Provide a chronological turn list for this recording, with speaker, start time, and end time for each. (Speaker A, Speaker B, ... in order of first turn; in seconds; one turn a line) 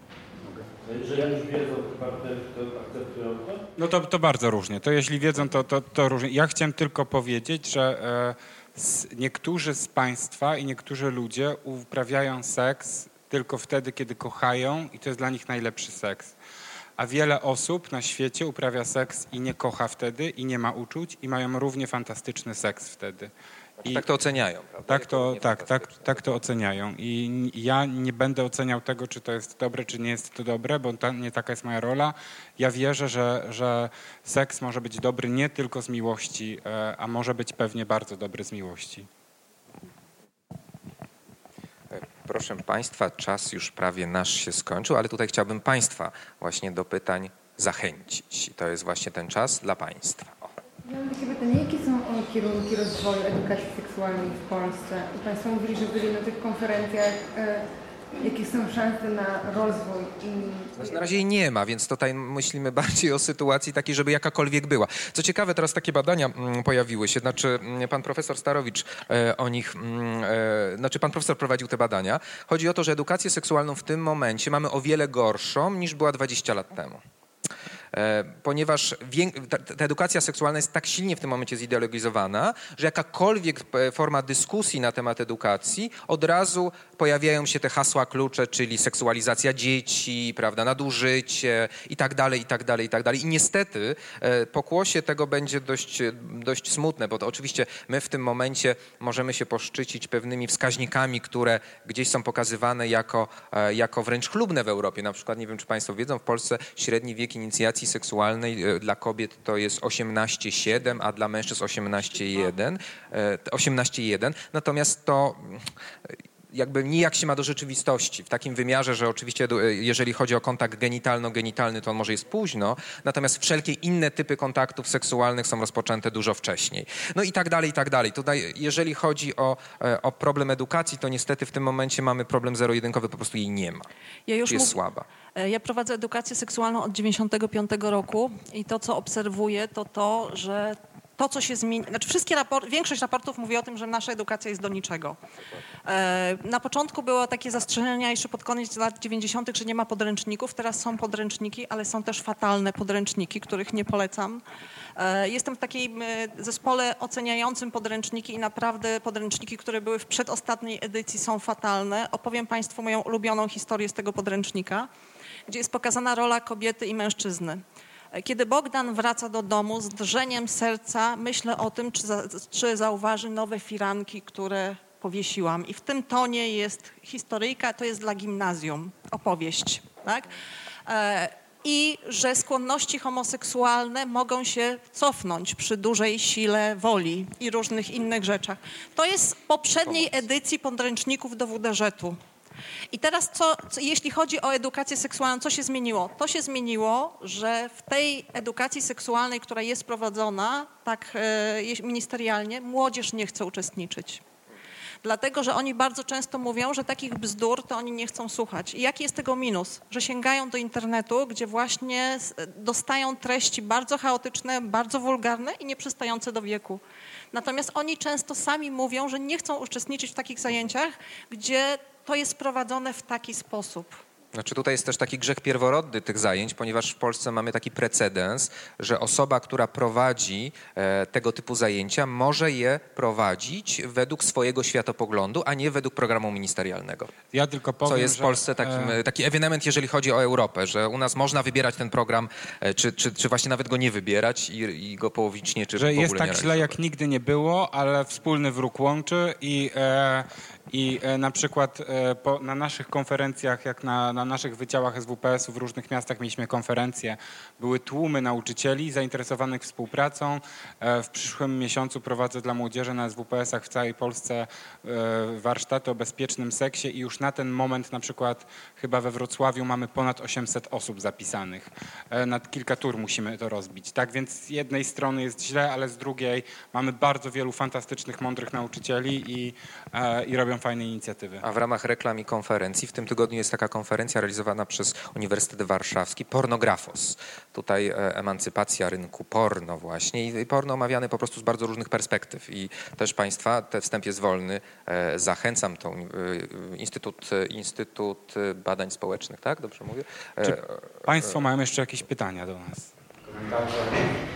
Speaker A: 0.8-3.6
Speaker B: 3.8-16.4
Speaker B: 17.0-23.3
Speaker C: 23.8-26.3
Speaker B: 24.9-39.1
Speaker C: 41.9-50.5
Speaker D: 50.9-60.9
Speaker C: 60.8-77.0
Speaker C: 77.9-115.7
Speaker C: 116.5-133.9
Speaker E: 134.3-134.8
Speaker C: 134.5-135.1
Speaker E: 135.3-145.2
Speaker E: 145.9-154.4
Speaker E: 155.0-164.9
Speaker E: 165.5-167.6
Speaker E: 168.2-180.3
Speaker E: 180.9-192.2
Speaker E: 192.9-204.2
Speaker E: 205.0-216.8
Speaker E: 217.3-224.0
Speaker C: 224.3-237.1
Speaker B: 237.3-239.0
Speaker C: 237.8-246.8
Speaker B: 245.8-281.4
Speaker C: 281.4-301.4
Speaker B: 300.4-304.1